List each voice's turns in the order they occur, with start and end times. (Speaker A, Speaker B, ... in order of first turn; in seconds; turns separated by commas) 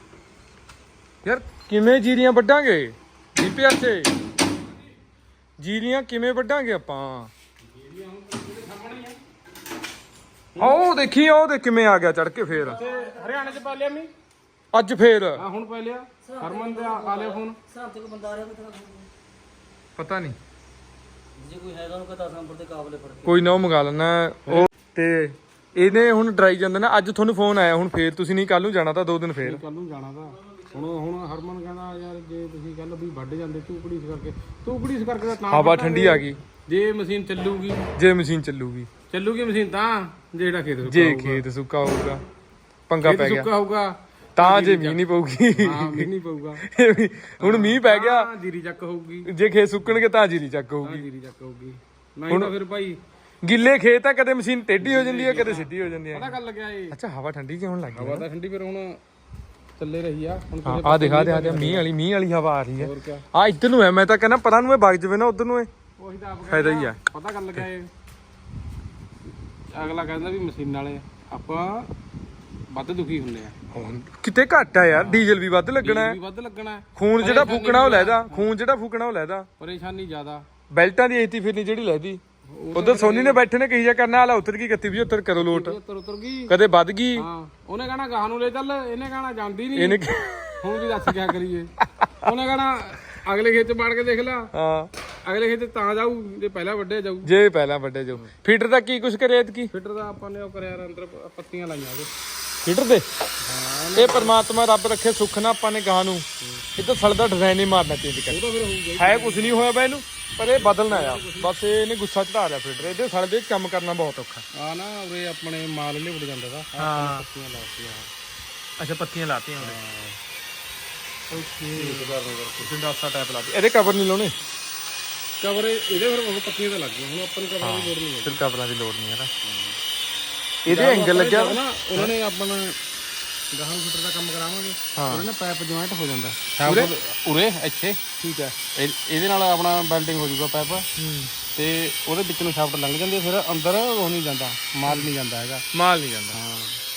Speaker A: 1.2-4.1, Speaker A: 5.6-7.3, Speaker B: 7.6-9.2, Speaker A: 10.6-12.8, Speaker B: 12.6-14.1, Speaker A: 14.7-15.4, Speaker B: 15.4-17.6, Speaker C: 16.5-17.1, Speaker C: 17.7-19.1, Speaker A: 19.9-20.4, Speaker C: 21.4-23.2, Speaker A: 23.2-29.6, Speaker B: 29.4-37.9, Speaker A: 35.5-36.4, Speaker A: 37.9-38.9, Speaker B: 39.1-41.5, Speaker A: 40.8-42.2, Speaker A: 42.9-43.5, Speaker B: 43.0-45.0, Speaker A: 44.4-48.3, Speaker B: 45.5-46.6, Speaker B: 47.4-49.3, Speaker A: 49.2-51.0, Speaker B: 50.8-53.0, Speaker A: 53.4-56.4, Speaker B: 54.8-57.0, Speaker A: 56.9-58.3, Speaker B: 57.9-59.0, Speaker B: 59.8-61.9, Speaker A: 60.6-65.7, Speaker B: 62.8-63.2, Speaker B: 66.0-67.9, Speaker A: 66.5-67.0, Speaker B: 69.7-71.9, Speaker B: 72.7-73.7, Speaker A: 73.7-76.2, Speaker B: 74.9-75.3, Speaker B: 75.8-78.5, Speaker A: 76.9-79.5, Speaker B: 79.6-80.5, Speaker A: 80.7-82.2, Speaker B: 82.5-83.4, Speaker A: 82.7-85.8, Speaker B: 85.3-86.5, Speaker A: 86.5-87.3, Speaker B: 87.2-90.0, Speaker A: 89.7-90.8, Speaker B: 90.6-91.7, Speaker A: 91.8-92.1, Speaker B: 92.2-94.5, Speaker A: 94.5-94.9, Speaker B: 95.2-97.3, Speaker A: 97.2-99.7, Speaker B: 99.7-102.1, Speaker A: 102.6-103.1, Speaker B: 103.4-104.4, Speaker A: 103.9-108.4, Speaker B: 108.3-109.7, Speaker A: 109.0-114.4, Speaker B: 110.5-111.5, Speaker B: 114.5-118.1, Speaker A: 116.8-117.2, Speaker A: 118.8-119.8, Speaker B: 119.6-120.2, Speaker B: 121.3-122.7, Speaker A: 121.3-124.3, Speaker B: 125.4-128.4, Speaker A: 127.6-129.3, Speaker B: 129.4-129.8, Speaker A: 130.6-132.1, Speaker B: 130.7-132.8, Speaker B: 133.5-140.9, Speaker A: 134.9-135.3, Speaker A: 136.6-136.9, Speaker A: 140.9-141.3, Speaker B: 141.5-145.6, Speaker A: 145.7-146.4, Speaker B: 146.3-146.8